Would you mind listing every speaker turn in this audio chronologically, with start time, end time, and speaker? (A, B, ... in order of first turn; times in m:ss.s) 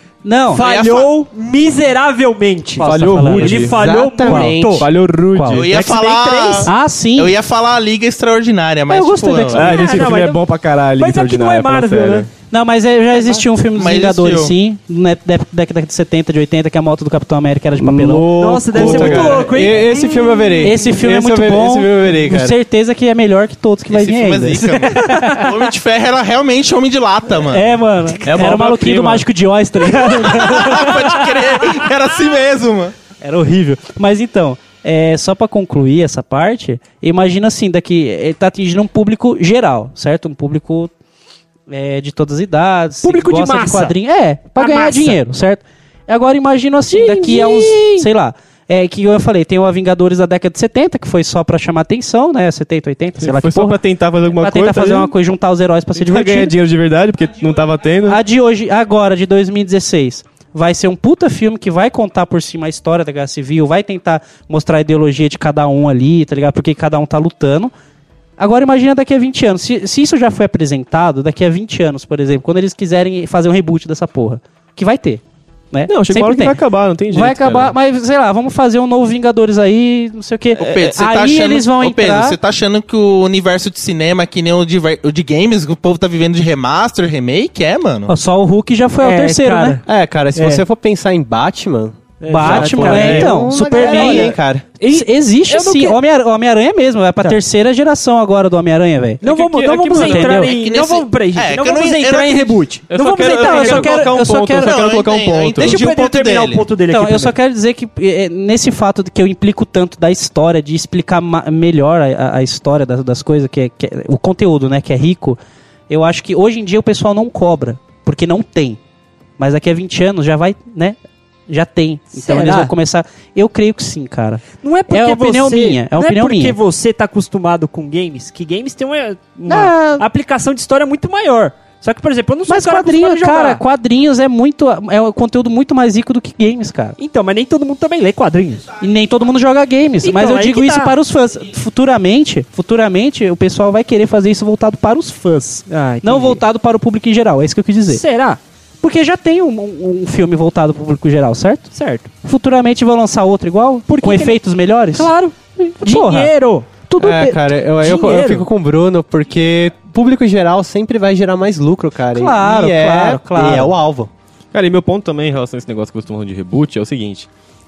0:00.2-0:00.6 A
0:00.5-0:04.9 B
0:00.5-0:01.1 C
0:02.8-0:04.5 A
0:02.8-0:03.9 D
0:03.6-0:04.9 E
0:04.5-0:05.8 D
0:05.3-0:05.6 A
0:05.5-0:09.9 C
0:05.8-0:06.7 B
0:06.6-0:07.3 A
0:08.9-0:10.0 A
0:09.5-0:12.3 D
0:09.6-0:10.4 B
0:11.0-0:12.3 B
0:12.5-0:18.3 A
0:13.7-0:14.5 C
0:17.8-0:22.6 E
0:18.0-0:19.6 D
0:18.3-0:20.9 B
0:18.8-0:19.2 A
0:20.6-0:25.5 A
0:23.9-0:27.8 C
0:24.8-0:25.3 B
0:27.3-0:31.2 A
0:28.2-0:29.3 D
0:29.9-0:32.9 C
0:30.1-0:30.8 B
0:33.2-0:40.9 A
0:41.7-0:53.8 A
0:43.0-0:44.0 B
0:44.6-0:45.2 B
0:46.9-0:48.0 B
0:53.2-0:55.1 D
0:54.3-0:56.6 A
0:55.9-0:58.2 D
0:58.1-1:07.7 A
1:08.4-1:16.6 A
1:15.9-1:17.7 D
1:17.1-1:22.4 A
1:20.5-1:28.1 C
1:28.1-1:29.8 A
1:29.0-1:29.8 B
1:29.8-1:34.7 E
1:30.4-1:30.6 B
1:32.2-1:36.0 B
1:32.3-1:39.2 A
1:39.2-1:44.1 B
1:39.2-1:40.5 D
1:39.8-1:40.5 A
1:40.3-1:42.6 C
1:42.9-1:45.8 D
1:43.2-1:44.8 A
1:44.5-1:46.6 C
1:45.6-1:47.3 B
1:46.9-1:55.4 A
1:55.9-1:58.8 A
1:59.4-2:06.6 A
2:02.1-2:02.7 B
2:04.5-2:13.6 B
2:09.5-2:10.0 A
2:12.5-2:17.0 A
2:17.0-2:18.7 B
2:18.8-2:28.0 A
2:20.0-2:20.9 B
2:25.7-2:26.4 B
2:27.9-2:28.4 B
2:28.8-2:31.7 A
2:31.7-2:32.1 B
2:32.2-2:37.4 A
2:33.9-2:34.4 B
2:34.9-2:36.9 B
2:37.0-2:44.1 E
2:37.8-2:38.5 B
2:42.1-2:43.7 A
2:44.5-2:47.3 D